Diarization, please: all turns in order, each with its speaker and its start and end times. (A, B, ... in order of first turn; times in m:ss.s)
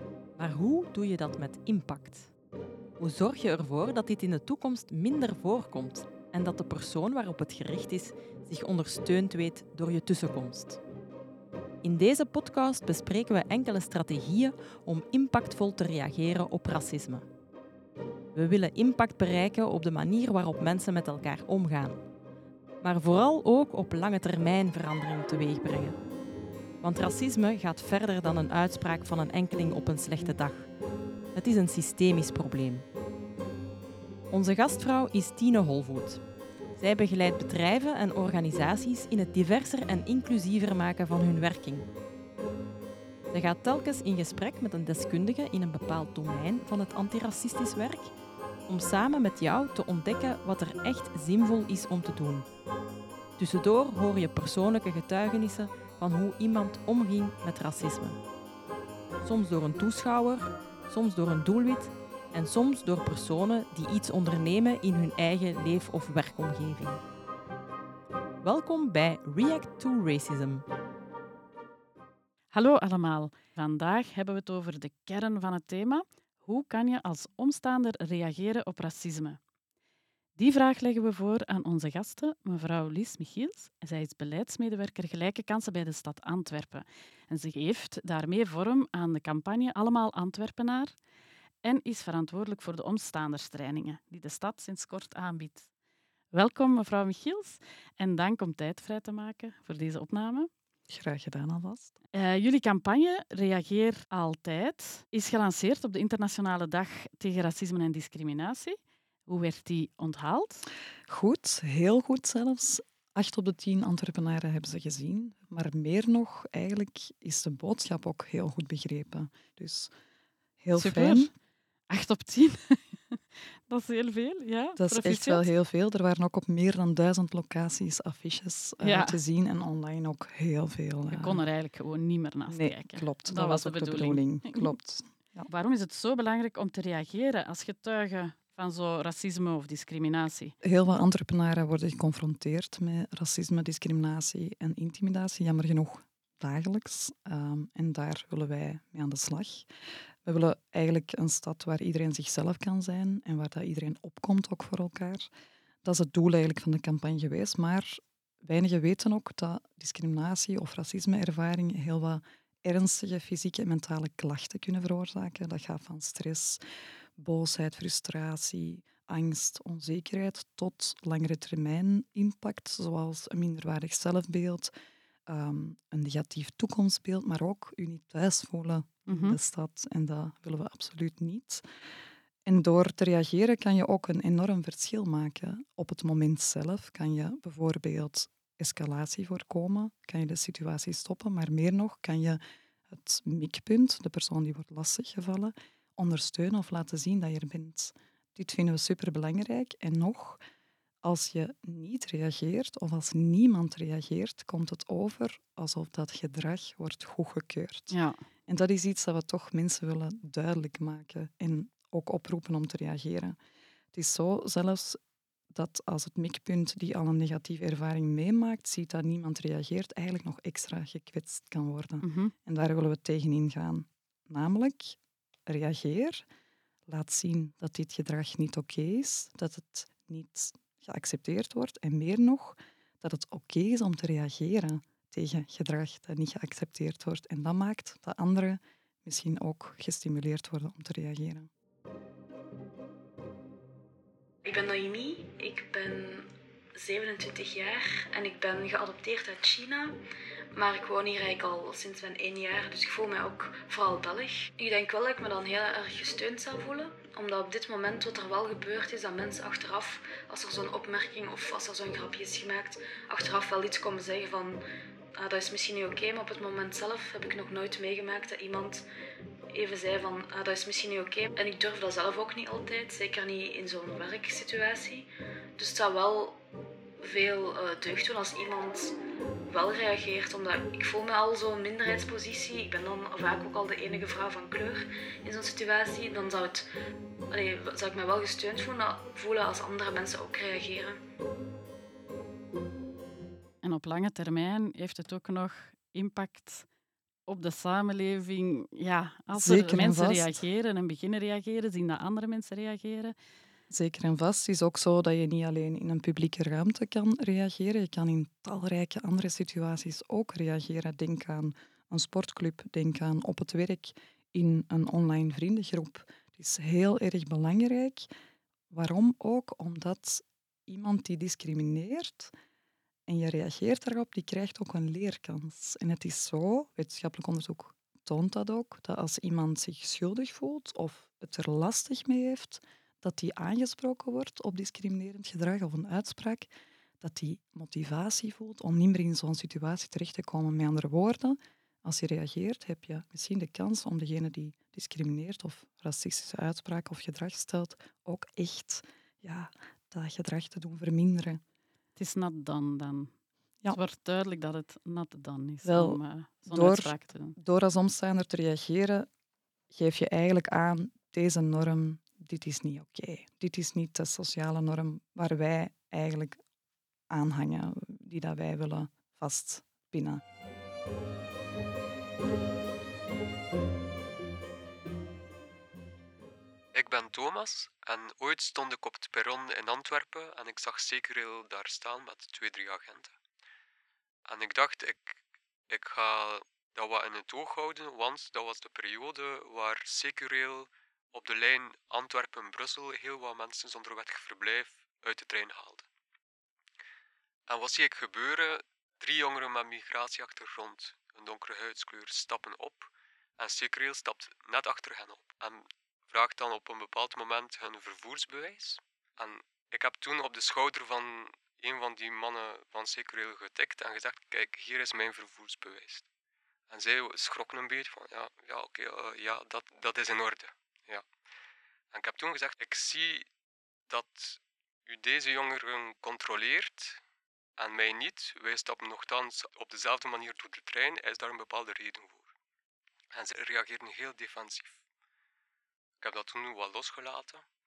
0:00.4-0:02.3 A
0:03.0-0:10.8 A
0:11.8-0:17.3 A
0:18.3-0:22.0 A
0:22.8-0:26.0 A
0:26.8-0:30.7 A
0:31.3-0:32.8 A
0:34.3-0:36.2 A
0:36.7-0:41.9 A
0:43.3-0:48.1 A
0:48.7-0:52.5 A
0:53.4-0:58.2 A
0:59.2-1:07.0 A
1:08.4-1:10.6 A
1:12.5-1:19.4 B
1:20.4-1:30.9 B
1:31.6-1:35.7 B
1:36.3-1:40.5 B
1:40.9-1:42.0 C
1:42.1-1:50.6 B
1:51.1-1:59.9 C
2:00.6-2:01.3 C
2:00.7-2:01.3 B
2:01.9-2:05.5 B
2:04.8-2:11.4 C
2:08.8-2:09.2 B
2:11.1-2:14.7 B
2:12.5-2:15.5 C
2:15.5-2:20.5 B
2:20.6-2:29.7 C
2:30.2-2:35.3 C
2:35.8-2:46.6 C
2:47.2-2:54.7 C
2:55.3-3:01.6 C
2:59.1-2:59.4 B
3:02.4-3:20.4 C
3:21.0-3:27.9 C
3:27.9-3:28.2 B
3:28.5-3:33.4 C
3:33.9-3:35.0 C
3:35.5-3:46.2 C
3:42.0-3:42.3 B
3:46.9-4:01.5 C
4:04.4-4:10.0 D
4:10.5-4:24.6 D
4:25.2-4:28.8 D
4:29.5-4:36.4 D
4:37.0-4:38.9 D
4:39.5-4:46.7 D
4:47.3-4:51.0 D
4:53.6-4:56.6 B
4:57.3-5:03.1 B
4:59.3-5:00.4 C
5:03.7-5:18.1 C
5:18.7-5:22.3 C
5:23.1-5:51.4 C
5:52.0-5:53.1 B
5:53.7-5:57.4 B
5:55.6-5:59.1 C
5:59.7-6:06.4 C
6:07.1-6:10.2 C
6:16.7-6:23.1 E
6:24.2-6:25.2 E
6:25.7-6:35.8 E
6:37.5-6:56.0 E
6:56.7-7:01.0 E
7:01.9-7:03.3 E
7:03.9-7:07.0 E
7:07.6-7:12.3 E
7:13.1-7:14.7 E
7:16.0-7:17.4 E